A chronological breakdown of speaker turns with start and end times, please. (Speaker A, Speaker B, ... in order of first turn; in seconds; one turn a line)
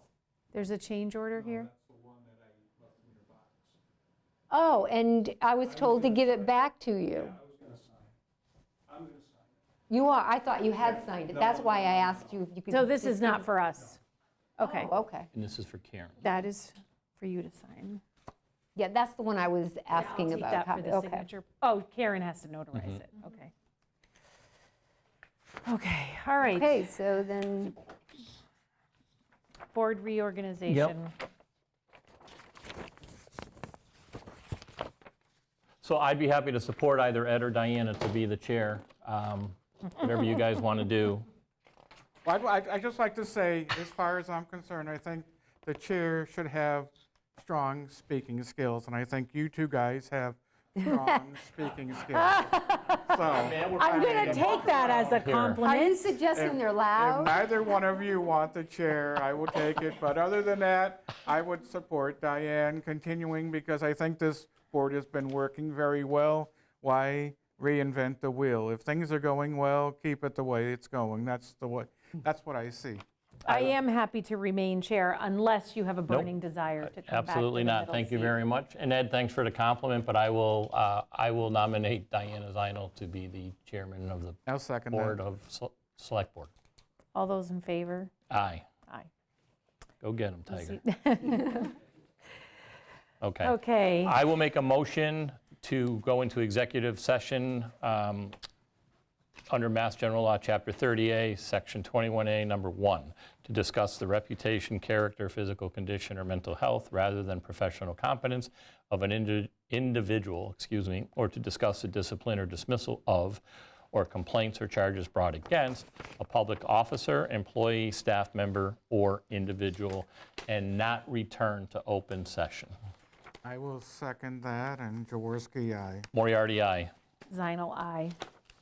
Speaker A: 0.5-1.7
Speaker B: 4.5-7.4
Speaker B: 9.9-13.5
Speaker A: 12.7-14.0
Speaker A: 14.6-14.9
Speaker B: 14.6-15.3
Speaker C: 15.3-16.2
Speaker A: 16.2-18.0
Speaker B: 18.7-21.3
Speaker A: 19.9-23.5
Speaker A: 25.6-26.9
Speaker B: 26.6-27.7
Speaker A: 29.7-31.1
Speaker C: 30.7-30.9
Speaker C: 35.8-41.3
Speaker D: 42.2-55.2
Speaker B: 50.8-51.1
Speaker A: 52.2-53.1
Speaker C: 53.3-55.6
Speaker A: 53.7-56.0
Speaker B: 55.6-57.4
Speaker D: 56.3-73.0
Speaker A: 73.4-78.3
Speaker C: 76.1-86.5
Speaker D: 84.5-85.2
Speaker A: 87.1-88.1
Speaker C: 88.3-88.7
Speaker C: 90.0-90.8
Speaker A: 90.5-91.7
Speaker C: 93.2-98.3
Speaker A: 93.4-94.1
Speaker C: 99.5-113.4
Speaker C: 113.9-122.7
Speaker D: 123.4-126.1
Speaker C: 126.1-126.9
Speaker A: 127.3-128.2